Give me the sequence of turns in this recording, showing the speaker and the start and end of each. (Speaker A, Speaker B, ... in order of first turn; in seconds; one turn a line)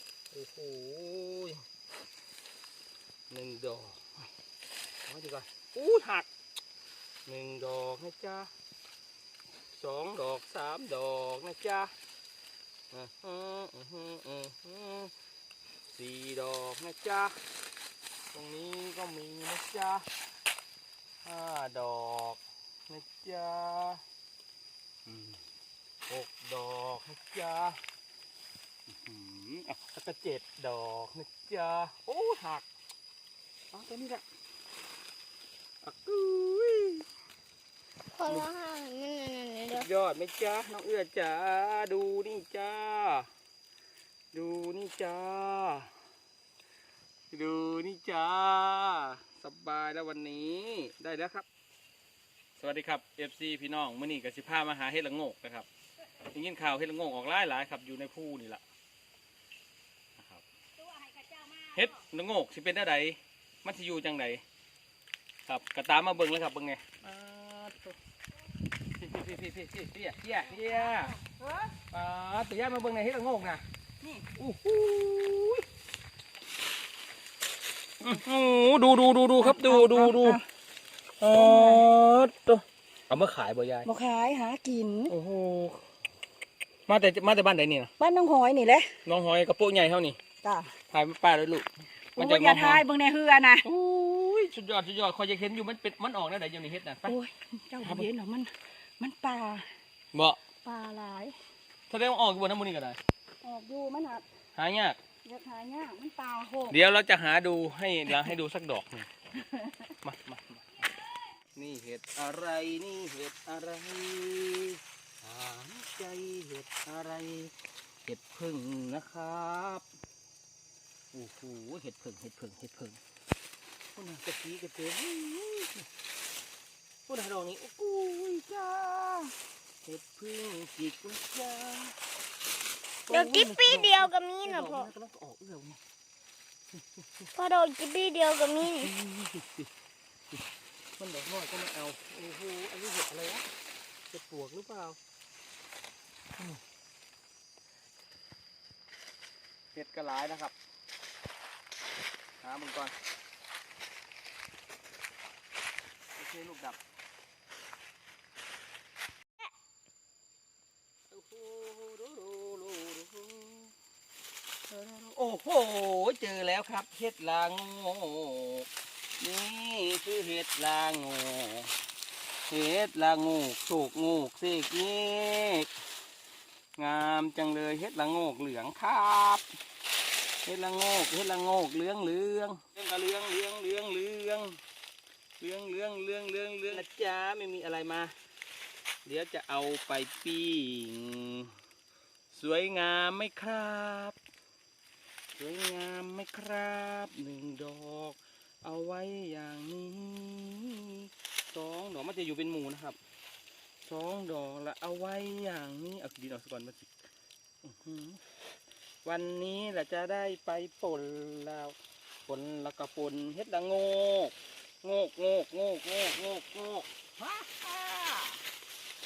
Speaker A: 0.3-1.6
Speaker A: 3.3-4.2
Speaker A: 5.1-6.3
Speaker A: 7.2-8.5
Speaker A: 9.7-11.9
Speaker A: 12.9-15.1
Speaker A: 15.9-17.4
Speaker A: 18.3-20.1
Speaker A: 21.2-24.0
Speaker A: 25.1-25.4
Speaker A: 26.1-27.8
Speaker A: 28.9-32.7
Speaker A: 33.7-34.2
Speaker A: 35.8-37.0
Speaker B: 38.1-39.9
Speaker A: 38.2-38.5
Speaker A: 39.7-43.3
Speaker A: 44.3-45.9
Speaker A: 47.3-51.5
Speaker A: 52.6-55.7
Speaker A: 56.3-58.6
Speaker A: 60.2-60.4
Speaker A: 61.6-64.4
Speaker A: 65.5-68.0
Speaker A: 69.0-71.2
Speaker C: 71.4-71.7
Speaker A: 71.9-73.6
Speaker A: 74.2-75.6
Speaker A: 78.0-80.4
Speaker C: 79.4-80.4
Speaker A: 81.2-83.9
Speaker C: 81.3-81.8
Speaker C: 83.9-85.1
Speaker A: 85.1-85.8
Speaker A: 86.9-87.9
Speaker C: 88.0-89.0
Speaker A: 89.0-90.2
Speaker C: 90.4-90.7
Speaker A: 90.9-92.8
Speaker C: 92.2-93.6
Speaker A: 93.6-97.2
Speaker C: 97.1-99.7
Speaker A: 97.8-98.1
Speaker A: 100.1-100.4
Speaker C: 100.6-101.4
Speaker A: 101.9-103.0
Speaker C: 103.4-104.2
Speaker A: 104.5-105.0
Speaker C: 105.2-106.8
Speaker A: 106.7-109.1
Speaker A: 110.0-110.9
Speaker A: 111.6-117.5
Speaker A: 118.1-119.8
Speaker A: 121.1-123.0
Speaker A: 124.0-125.9
Speaker A: 127.1-131.9
Speaker A: 133.1-135.8
Speaker B: 133.1-134.9
Speaker A: 137.0-137.2
Speaker B: 137.3-138.9
Speaker A: 138.6-139.7
Speaker A: 141.0-143.4
Speaker A: 144.1-145.0
Speaker A: 149.7-150.5
Speaker A: 152.4-152.9
Speaker A: 156.2-156.8
Speaker A: 161.1-163.7
Speaker A: 164.7-168.7
Speaker A: 169.2-171.7
Speaker A: 172.5-175.7
Speaker A: 176.8-179.4
Speaker A: 180.4-184.6
Speaker A: 185.4-188.1
Speaker A: 189.1-191.5
Speaker A: 192.3-194.2
Speaker A: 195.4-203.0
Speaker A: 203.8-206.9
Speaker A: 207.6-208.2
Speaker A: 209.0-211.8
Speaker A: 212.3-218.4